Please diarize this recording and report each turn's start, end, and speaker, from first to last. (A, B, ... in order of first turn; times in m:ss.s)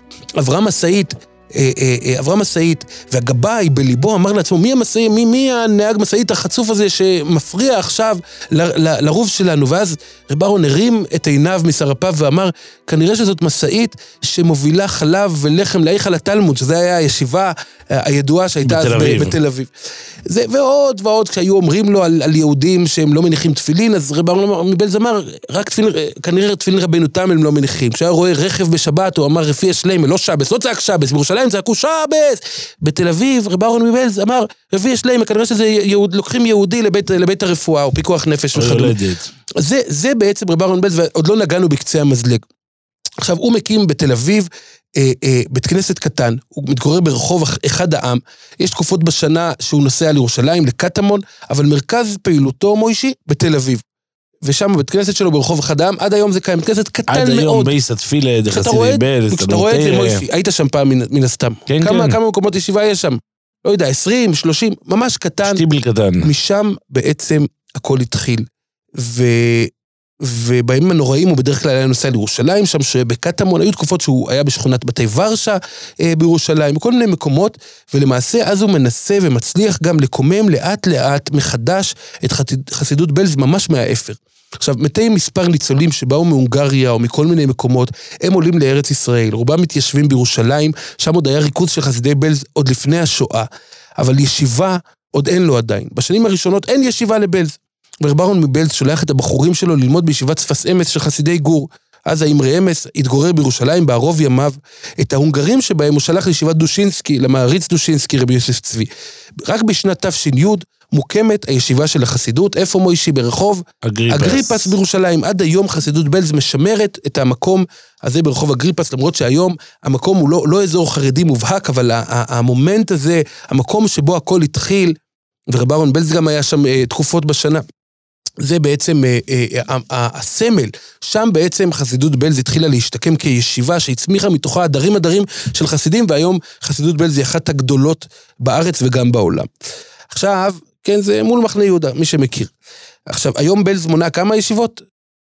0:00.4-0:19.7 A
0:18.6-0:19.4 B
0:20.3-0:38.9 A
0:38.5-0:39.3 B
0:39.6-0:42.4 A
0:43.2-0:53.8 A
0:54.4-0:57.7 A
0:57.1-1:00.2 B
0:58.5-1:05.6 A
1:01.7-1:02.2 B
1:05.4-1:06.3 B
1:06.2-1:08.4 A
1:09.0-1:09.7 A
1:10.2-1:33.5 A
1:34.0-1:48.9 A
1:49.4-2:05.0 A
1:53.8-1:54.7 B
2:05.5-2:07.6 A
2:08.4-2:19.5 A
2:20.1-2:22.5 A
2:23.1-2:24.8 A